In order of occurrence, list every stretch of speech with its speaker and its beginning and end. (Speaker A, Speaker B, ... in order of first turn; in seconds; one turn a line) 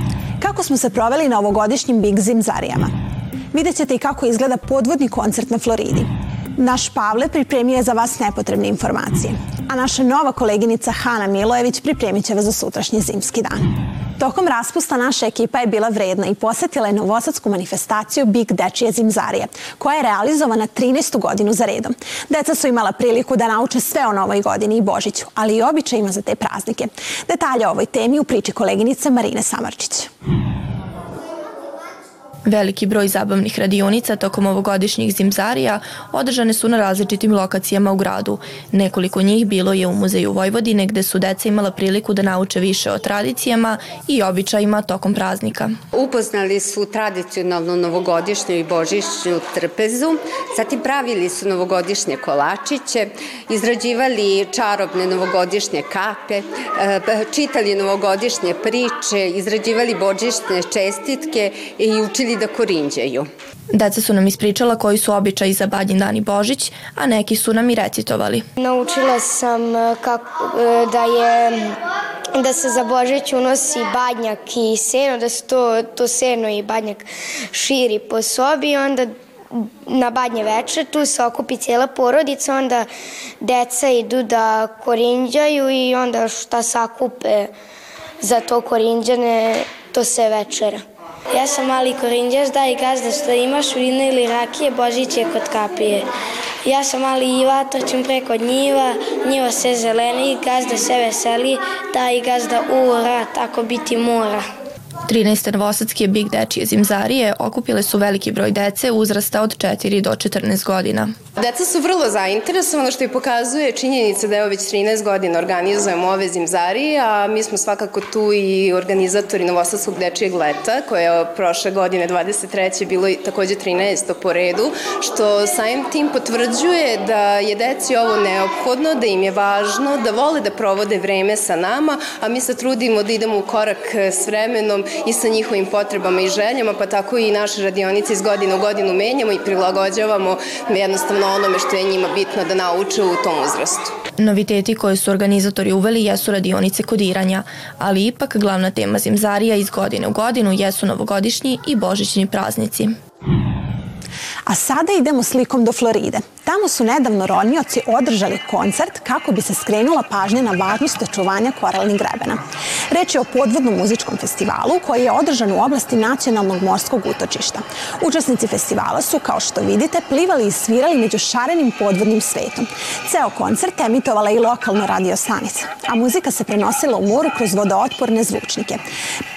Speaker A: 0.4-2.9
Speaker A: 3.5-13.7
Speaker A: 14.2-30.1
Speaker B: 32.5-45.8
Speaker C: 45.9-63.3
Speaker B: 63.7-68.5
Speaker D: 68.6-71.7
Speaker D: 72.3-82.9
Speaker D: 83.4-87.5
Speaker D: 88.2-90.8
Speaker E: 91.3-96.0
Speaker E: 96.6-104.4
Speaker B: 105.1-111.1
Speaker F: 111.4-143.9
Speaker B: 144.2-152.9
Speaker A: 154.5-162.4
Speaker A: 162.9-178.8